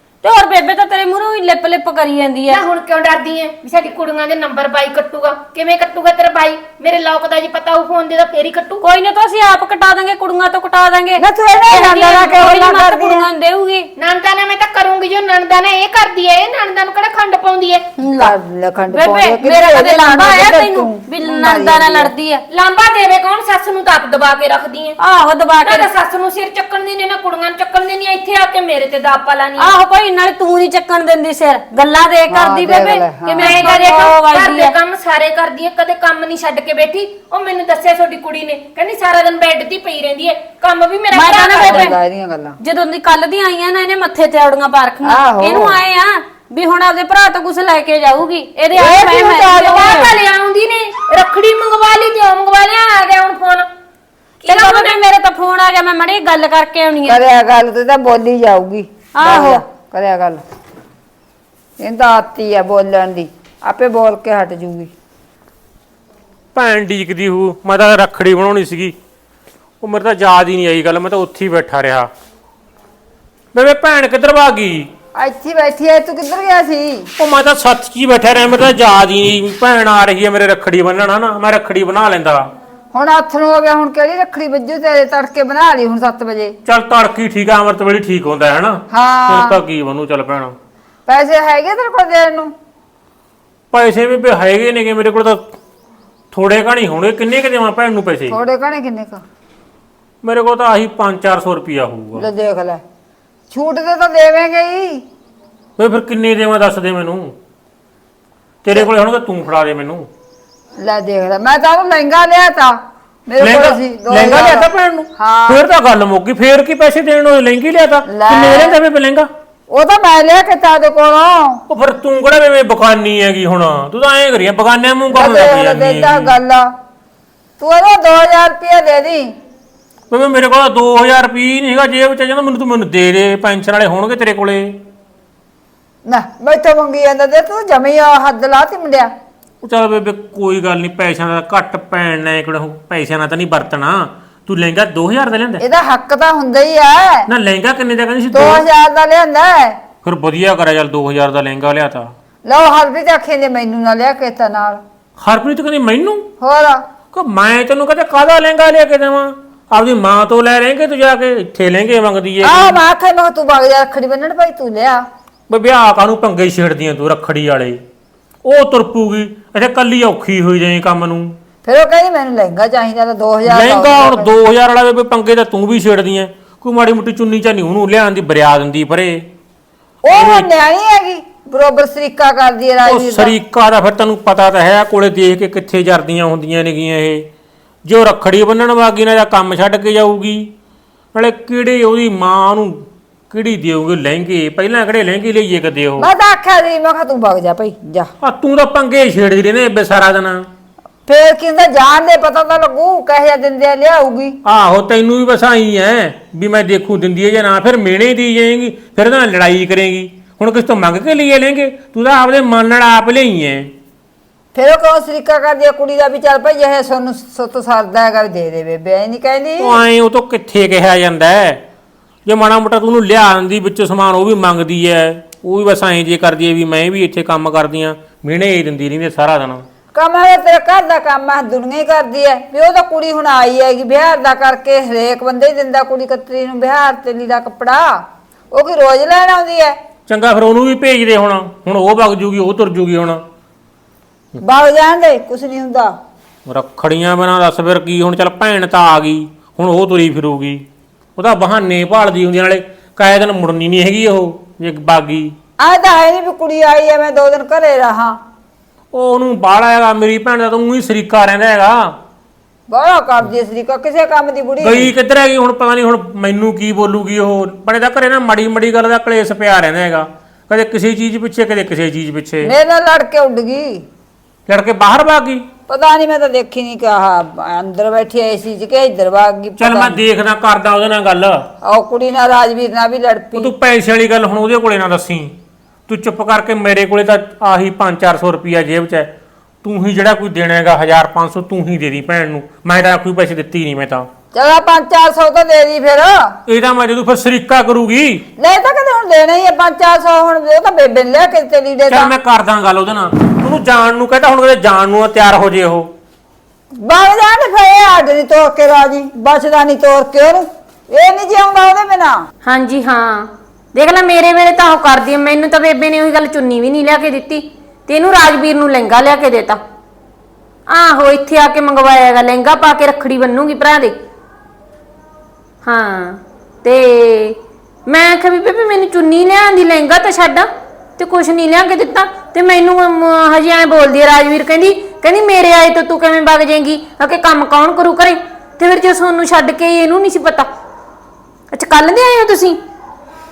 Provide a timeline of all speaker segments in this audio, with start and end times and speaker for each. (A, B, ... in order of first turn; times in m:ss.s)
0:00.2-0:02.6 A
0:02.5-0:08.8 B
0:08.8-0:13.9 A
0:11.2-0:13.2 C
0:14.0-0:17.8 B
0:18.0-0:18.3 A
0:18.1-0:22.1 C
0:18.9-0:19.3 B
0:19.2-0:22.4 A
0:22.5-0:25.0 B
0:25.0-0:25.9 A
0:25.6-0:29.7 B
0:29.6-0:34.7 A
0:32.3-0:33.8 C
0:33.4-0:41.9 B
0:41.1-0:41.9 A
0:41.6-0:42.6 C
0:42.6-0:50.1 A
0:45.0-0:45.8 C
0:48.7-0:49.4 C
0:49.4-0:53.6 B
0:54.4-0:55.0 B
0:54.4-0:57.2 A
0:57.0-1:00.4 C
0:59.2-0:59.6 A
1:01.8-1:04.9 C
1:06.5-1:09.0 D
1:09.8-1:12.1 D
1:13.5-1:14.9 D
1:15.2-1:17.1 C
1:17.2-1:22.5 D
1:22.9-1:26.6 C
1:26.6-1:30.5 D
1:28.9-1:29.6 C
1:31.1-1:32.5 C
1:33.7-1:35.5 D
1:36.3-1:38.4 D
1:38.3-1:39.2 C
1:40.2-1:42.3 D
1:42.2-1:42.8 C
1:43.5-1:45.0 C
1:45.8-1:47.3 D
1:48.6-1:50.1 D
1:50.8-1:55.6 C
1:53.4-1:59.3 D
1:58.1-1:58.8 C
1:59.7-2:01.6 C
2:01.7-2:06.4 D
2:05.1-2:06.7 C
2:07.6-2:09.3 C
2:10.1-2:14.8 D
2:16.0-2:19.1 C
2:19.6-2:25.6 D
2:25.6-2:27.3 C
2:27.3-2:28.6 D
2:28.3-2:29.8 C
2:30.0-2:32.1 D
2:32.4-2:34.8 C
2:35.2-2:36.2 D
2:36.4-2:36.8 C
2:37.1-2:42.8 D
2:42.4-2:45.0 C
2:45.5-2:47.8 D
2:48.4-2:51.3 D
2:51.6-2:54.3 C
2:53.5-2:59.2 D
3:00.0-3:03.4 C
3:00.1-3:00.5 D
3:02.8-3:07.2 D
3:07.8-3:10.5 D
3:11.1-3:16.1 D
3:16.0-3:18.1 C
3:18.2-3:20.5 D
3:21.1-3:24.4 C
3:24.4-3:33.7 D
3:34.5-3:39.8 C
3:39.6-3:41.6 D
3:42.3-3:49.6 D
3:49.9-3:59.8 C
4:00.1-4:03.2 D
4:04.4-4:05.9 C
4:06.5-4:10.6 D
4:11.2-4:15.3 D
4:15.6-4:18.2 C
4:18.9-4:22.0 D
4:22.7-4:24.9 C
4:24.6-4:32.5 D
4:32.4-4:33.8 C
4:34.5-4:35.4 D
4:35.7-4:40.0 C
4:39.6-4:41.4 D
4:41.6-4:43.5 C
4:43.4-4:45.3 D
4:45.9-4:49.1 D
4:49.6-4:54.1 D
4:54.3-4:56.4 C
4:56.5-4:58.2 D
4:58.4-5:02.1 C
5:01.9-5:05.9 D
5:06.8-5:12.2 C
5:12.4-5:19.6 B
5:20.7-5:23.9 B
5:25.6-5:30.5 B
5:31.0-5:40.5 B
5:41.5-5:42.6 B